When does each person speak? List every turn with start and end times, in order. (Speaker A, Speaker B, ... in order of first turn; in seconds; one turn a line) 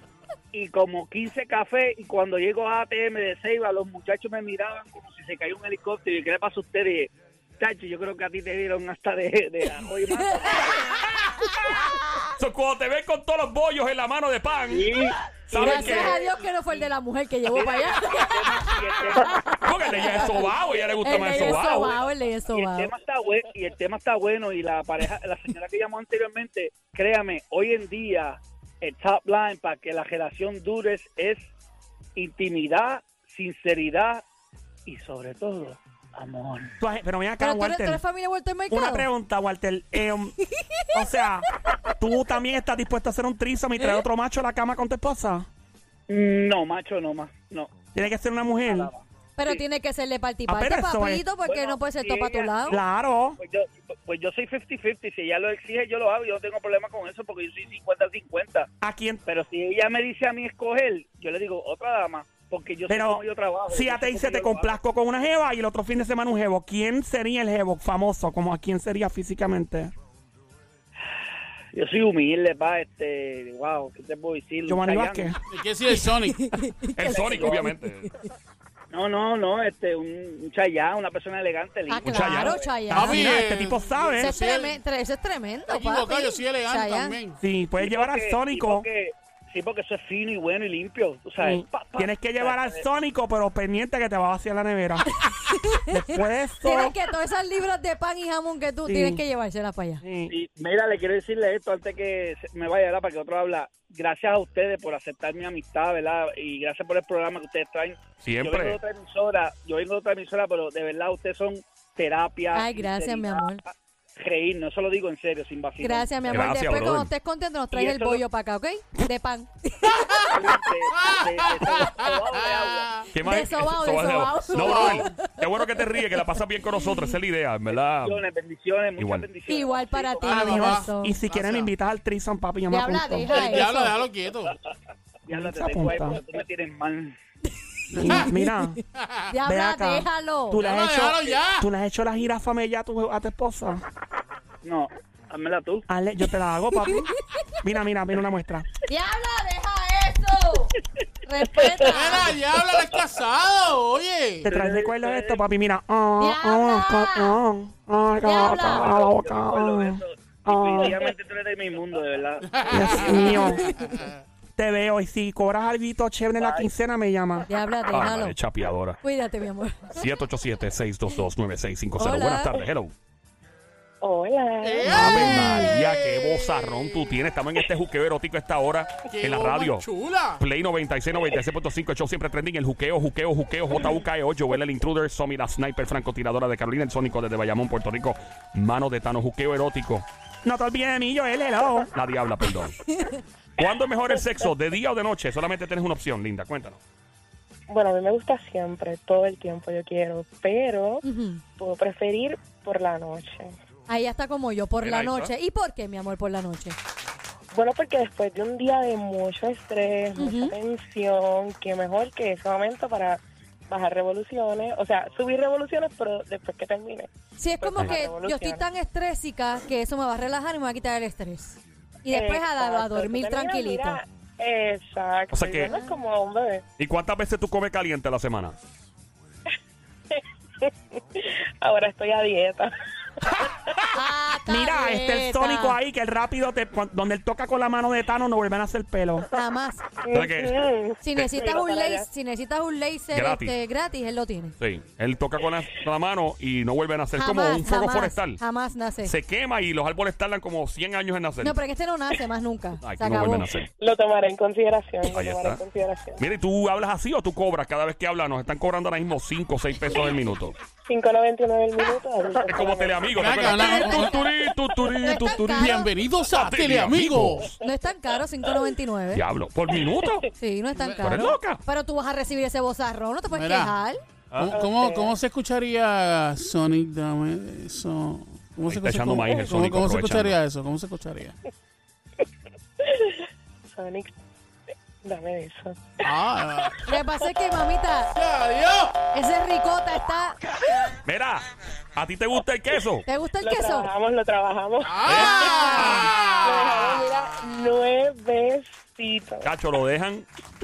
Speaker A: 0.5-10.9
Speaker B: 12.4-16.2
Speaker A: 14.7-16.9
Speaker C: 15.5-19.4
Speaker D: 15.5-16.0
Speaker A: 17.5-31.5
Speaker B: 19.6-21.9
Speaker C: 21.0-22.9
Speaker A: 32.2-34.2
Speaker A: 34.9-36.7
Speaker D: 36.8-38.0
Speaker C: 37.4-39.1
Speaker D: 38.7-40.4
Speaker D: 40.9-45.5
Speaker A: 46.1-47.7
Speaker D: 47.9-48.9
Speaker A: 48.5-49.6
Speaker C: 49.4-52.8
Speaker D: 50.5-51.3
Speaker A: 51.4-52.8
Speaker D: 52.7-53.4
Speaker A: 53.4-58.7
Speaker D: 58.8-59.2
Speaker A: 59.3-64.8
Speaker D: 62.9-69.9
Speaker A: 71.7-75.3
Speaker D: 74.7-75.4
Speaker E: 75.5-76.4
Speaker C: 75.9-78.1
Speaker B: 76.9-78.1
Speaker A: 77.1-77.7
Speaker A: 78.9-82.9
Speaker C: 81.9-83.5
Speaker B: 82.0-82.6
Speaker E: 82.9-84.8
Speaker D: 83.0-84.4
Speaker C: 84.2-87.2
Speaker E: 85.7-87.4
Speaker D: 87.4-88.9
Speaker A: 87.8-92.8
Speaker D: 91.4-95.1
Speaker C: 95.2-100.0
Speaker D: 95.9-97.0
Speaker D: 98.8-99.2
Speaker D: 100.0-100.3
Speaker A: 100.3-116.3
Speaker B: 108.2-108.8
Speaker C: 112.5-113.6
Speaker C: 115.8-120.0
Speaker B: 116.3-117.1
Speaker A: 117.7-118.2
Speaker E: 120.1-123.0
Speaker A: 120.3-123.0
Speaker B: 123.1-128.3
Speaker C: 123.2-126.3
Speaker A: 124.5-124.8
Speaker E: 124.6-125.1
Speaker C: 126.8-127.2
Speaker A: 127.7-130.4
Speaker B: 128.9-129.4
Speaker C: 129.5-131.2
Speaker E: 130.2-131.7
Speaker D: 130.4-133.3
Speaker C: 132.7-134.0
Speaker E: 133.3-134.6
Speaker A: 135.3-137.2
Speaker D: 135.3-136.2
Speaker D: 137.9-138.8
Speaker E: 138.0-138.3
Speaker C: 138.0-138.5
Speaker E: 139.0-139.3
Speaker C: 139.3-140.7
Speaker D: 139.4-143.8
Speaker E: 140.6-141.7
Speaker A: 144.6-145.8
Speaker D: 145.9-147.1
Speaker C: 146.8-147.1
Speaker D: 147.6-148.7
Speaker C: 148.9-152.3
Speaker A: 151.5-152.3
Speaker E: 152.0-154.5
Speaker D: 154.4-161.0
Speaker A: 154.4-155.4
Speaker C: 156.2-157.4
Speaker C: 158.2-158.9
Speaker A: 158.5-163.2
Speaker E: 162.5-164.2
Speaker D: 162.7-163.7
Speaker C: 163.3-164.0
Speaker D: 164.6-167.5
Speaker A: 166.4-166.7
Speaker C: 167.5-168.4
Speaker B: 167.9-169.0
Speaker C: 169.0-170.0
Speaker B: 169.9-172.9
Speaker C: 172.0-172.5
Speaker F: 174.0-175.6
Speaker E: 174.6-177.1
Speaker B: 174.9-190.1
Speaker E: 179.1-180.4
Speaker D: 190.4-191.9
Speaker B: 191.9-192.9
Speaker B: 193.6-196.8
Speaker F: 197.7-201.0
Speaker C: 201.0-201.4
Speaker F: 201.6-203.6
Speaker C: 203.9-206.8
Speaker B: 204.8-205.3
Speaker F: 207.5-218.7
Speaker C: 210.2-210.5
Speaker C: 217.4-224.0
Speaker F: 222.1-226.6
Speaker B: 225.3-225.7
Speaker C: 225.7-226.0
Speaker B: 226.8-228.6
Speaker F: 230.1-232.7
Speaker C: 233.9-235.8
Speaker D: 234.5-239.3
Speaker C: 239.3-239.8
Speaker F: 240.0-242.1
Speaker B: 240.1-240.6
Speaker C: 241.0-244.6
Speaker B: 243.1-243.6
Speaker B: 244.6-248.4
Speaker C: 247.1-249.2
Speaker B: 249.0-251.6
Speaker C: 251.4-253.5
Speaker B: 252.8-253.7
Speaker F: 253.8-256.2
Speaker B: 255.1-255.6
Speaker B: 256.2-260.6
Speaker F: 260.9-263.2
Speaker B: 262.4-267.5
Speaker E: 263.2-264.2
Speaker C: 263.7-264.2
Speaker C: 265.1-265.9
Speaker E: 265.5-267.5
Speaker C: 267.6-269.2
Speaker B: 269.1-270.3
Speaker C: 270.4-274.0
Speaker E: 270.7-271.3
Speaker B: 271.0-271.6
Speaker E: 273.3-273.8
Speaker B: 274.3-274.6
Speaker E: 274.4-281.4
Speaker F: 274.4-275.2
Speaker B: 278.7-280.4
Speaker F: 282.8-283.1
Speaker F: 283.7-284.1
Speaker F: 285.0-286.7
Speaker E: 286.0-286.8
Speaker C: 286.9-288.1
Speaker E: 288.1-288.9
Speaker C: 289.1-290.4
Speaker B: 291.1-293.1
Speaker C: 293.1-293.9
Speaker F: 293.4-299.6
Speaker E: 294.8-297.0
Speaker B: 295.1-296.1
Speaker C: 295.1-296.1
Speaker B: 299.4-300.3